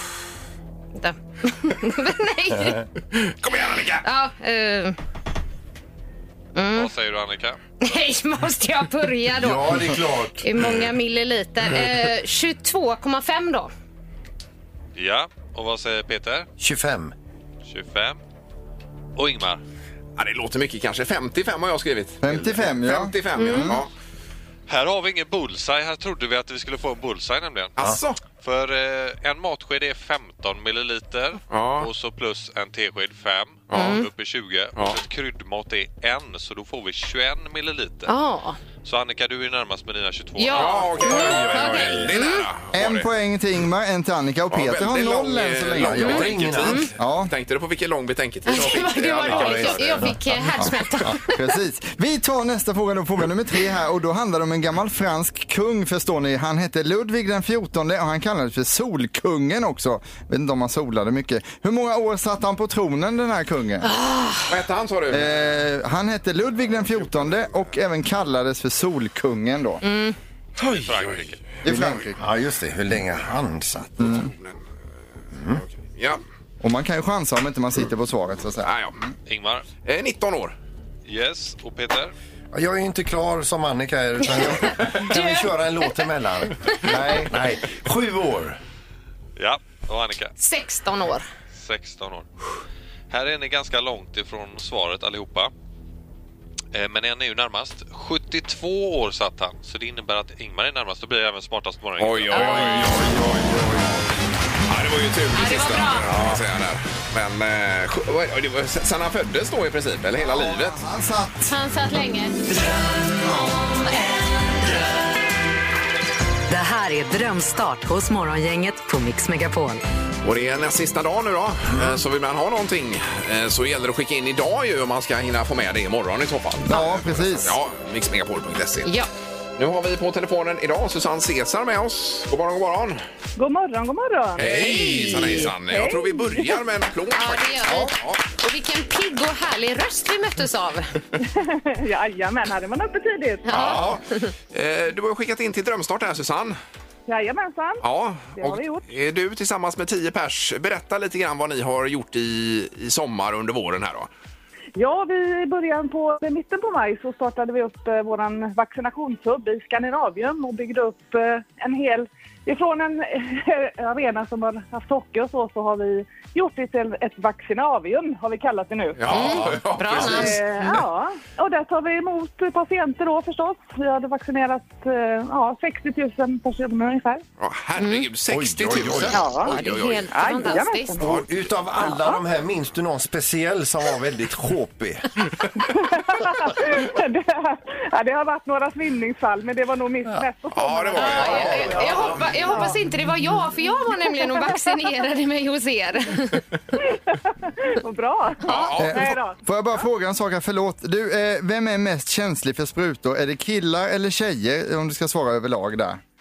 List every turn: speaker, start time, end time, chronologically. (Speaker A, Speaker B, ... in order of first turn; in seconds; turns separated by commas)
Speaker A: 0.9-2.8, Speaker B: 2.5-2.8, Speaker C: 3.1-4.0, Speaker A: 4.0-5.0, Speaker A: 6.5-6.9, Speaker D: 6.7-7.6, Speaker A: 7.8-9.9, Speaker B: 9.4-10.5, Speaker A: 10.4-13.7, Speaker D: 14.9-16.5, Speaker B: 16.6-17.1, Speaker D: 17.6-18.2, Speaker D: 19.1-19.6, Speaker C: 20.2-23.9, Speaker E: 22.2-23.8, Speaker A: 23.4-23.8, Speaker D: 24.7-27.7, Speaker C: 27.8-28.2, Speaker D: 28.3-38.1, Speaker C: 31.5-31.9, Speaker C: 33.7-34.0, Speaker A: 33.7-34.0, Speaker A: 38.0-38.6, Speaker D: 38.8-41.1, Speaker A: 40.4-42.5, Speaker C: 40.5-43.1, Speaker B: 41.0-42.1, Speaker E: 42.7-46.3, Speaker C: 44.5-50.1, Speaker B: 45.8-46.9, Speaker E: 47.0-47.3, Speaker A: 48.5-51.4, Speaker B: 49.2-50.4, Speaker E: 50.6-63.9, Speaker A: 63.8-64.4, Speaker C: 64.5-65.3, Speaker E: 65.1-69.8, Speaker A: 69.8-70.2, Speaker C: 70.6-71.9, Speaker D: 70.7-71.4, Speaker E: 71.6-72.2, Speaker B: 71.7-74.1, Speaker E: 74.0-74.3, Speaker B: 75.3-75.6, Speaker C: 75.8-76.2, Speaker E: 76.6-79.1, Speaker C: 78.6-79.0, Speaker D: 79.3-79.7, Speaker C: 79.8-80.5, Speaker D: 81.1-82.1, Speaker B: 82.5-88.6, Speaker A: 85.0-85.9, Speaker E: 86.8-87.3, Speaker D: 89.4-90.3, Speaker A: 90.4-91.2, Speaker D: 91.5-92.3, Speaker D: 93.1-95.5, Speaker D: 96.7-103.1, Speaker C: 102.0-103.4, Speaker A: 102.3-103.0, Speaker E: 103.2-103.8, Speaker C: 104.7-110.8, Speaker A: 105.3-106.1, Speaker E: 110.2-111.5, Speaker A: 111.5-112.4, Speaker F: 116.5-119.8, Speaker C: 120.2-128.9, Speaker E: 126.6-127.6, Speaker C: 129.6-133.0, Speaker G: 133.4-134.5, Speaker C: 134.4-138.2, Speaker A: 134.5-135.5, Speaker G: 135.6-136.5, Speaker A: 137.1-140.9, Speaker G: 141.2-143.7, Speaker A: 143.5-144.3, Speaker C: 143.5-146.6, Speaker G: 147.1-147.8, Speaker C: 147.8-154.1, Speaker G: 148.3-148.8, Speaker G: 154.8-169.0, Speaker C: 169.0-170.3, Speaker B: 169.1-170.1, Speaker A: 169.1-170.8, Speaker G: 170.0-177.2, Speaker C: 177.4-180.1, Speaker A: 177.8-178.1, Speaker B: 178.3-179.2, Speaker G: 179.1-179.5, Speaker A: 179.4-181.0, Speaker G: 180.1-181.1, Speaker B: 181.0-185.1, Speaker G: 185.7-192.8, Speaker C: 190.5-192.3, Speaker A: 190.9-196.4, Speaker B: 191.3-191.7, Speaker G: 193.9-194.9, Speaker G: 196.8-199.4, Speaker C: 198.4-199.2, Speaker E: 198.8-206.0